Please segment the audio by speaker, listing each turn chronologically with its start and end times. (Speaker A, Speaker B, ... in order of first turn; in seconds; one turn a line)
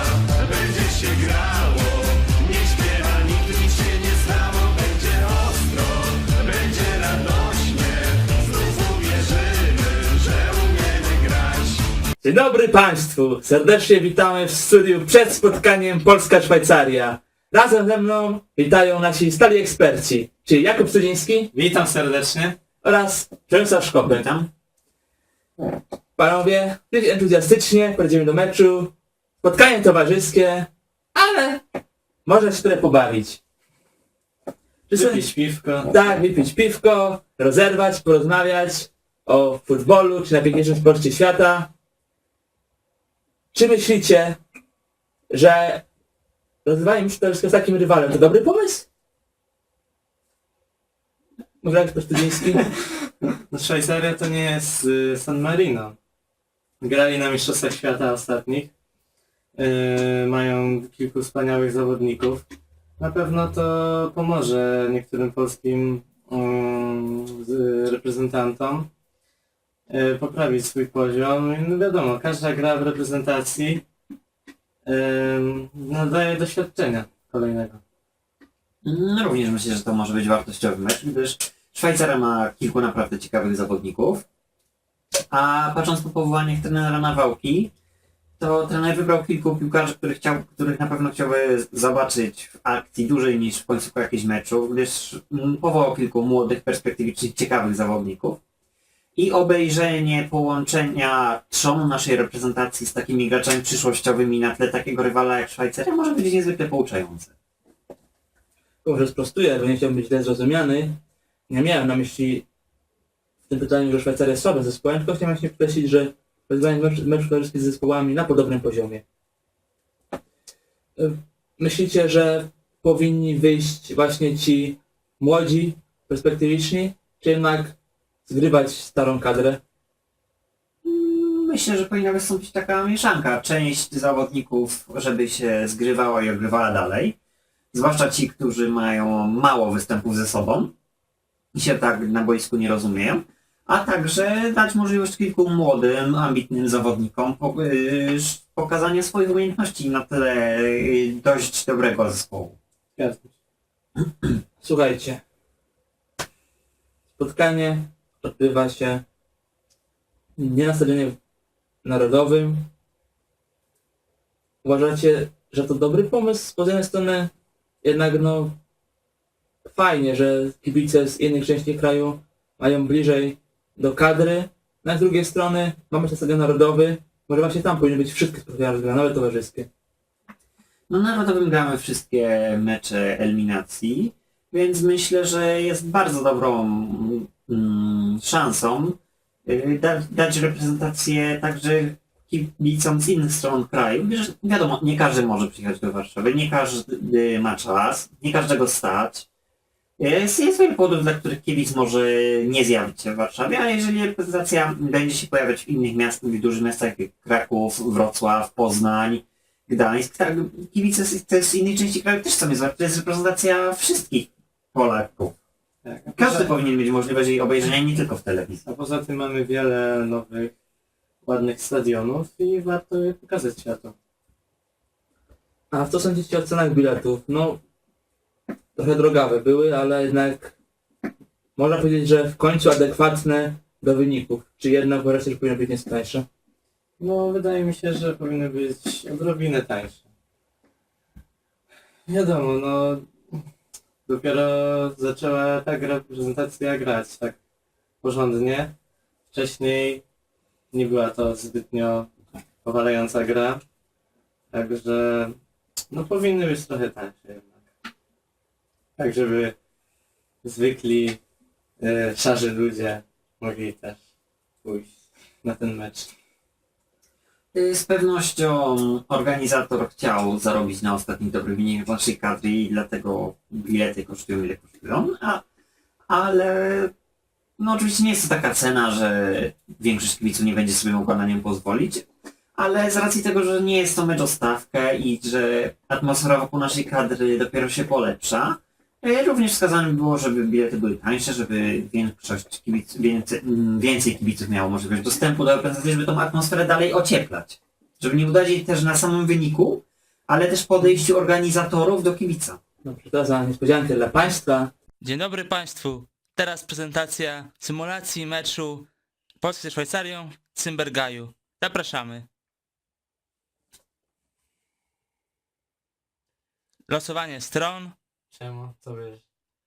Speaker A: 0.3-7.8
Speaker B: 12.2-21.5
Speaker A: 21.5-22.6
Speaker B: 22.8-24.3
Speaker C: 24.0-24.5
Speaker B: 26.1-31.6
Speaker B: 32.2-33.4
Speaker B: 34.9-35.3
Speaker A: 34.9-35.9
Speaker B: 35.9-41.7
Speaker B: 43.5-44.4
Speaker B: 45.3-45.9
Speaker B: 46.6-48.9
Speaker B: 51.6-52.7
Speaker A: 53.2-56.0
Speaker A: 56.8-58.7
Speaker A: 59.5-62.4
Speaker A: 63.0-68.9
Speaker A: 69.9-73.8
Speaker A: 74.8-77.8
Speaker C: 78.8-84.2
Speaker C: 85.3-87.7
Speaker C: 88.4-98.4
Speaker C: 99.2-107.3
Speaker B: 108.8-112.4
Speaker B: 113.5-119.0
Speaker B: 121.0-129.6
Speaker C: 130.8-137.2
Speaker C: 137.7-140.7
Speaker C: 141.5-152.6
Speaker A: 152.9-153.3
Speaker B: 154.6-155.2
Speaker B: 157.1-159.0
Speaker B: 160.3-161.2
Speaker B: 161.8-162.7
Speaker B: 164.6-167.3
Speaker B: 167.8-168.6
Speaker B: 169.6-179.7
Speaker C: 180.9-199.2
Speaker C: 200.0-215.3
Speaker A: 215.8-216.5
Speaker C: 216.2-218.6
Speaker A: 218.6-220.5
Speaker A: 221.2-223.9
Speaker B: 225.7-227.6
Speaker B: 228.8-230.5
Speaker B: 231.6-236.3
Speaker A: 237.0-240.0
Speaker A: 242.1-243.1
Speaker A: 244.1-247.4
Speaker A: 248.0-248.7
Speaker A: 249.3-250.0
Speaker A: 250.7-252.1
Speaker A: 252.6-253.6
Speaker A: 254.5-255.3
Speaker A: 255.9-257.7
Speaker A: 259.0-259.5
Speaker A: 260.4-261.2
Speaker A: 261.8-264.0
Speaker A: 264.6-264.9
Speaker A: 265.4-266.1
Speaker C: 267.5-275.4
Speaker C: 276.1-276.9
Speaker C: 277.6-282.0
Speaker C: 282.6-302.6
Speaker B: 302.8-308.9
Speaker B: 309.4-312.3
Speaker B: 316.9-317.9
Speaker A: 318.3-319.2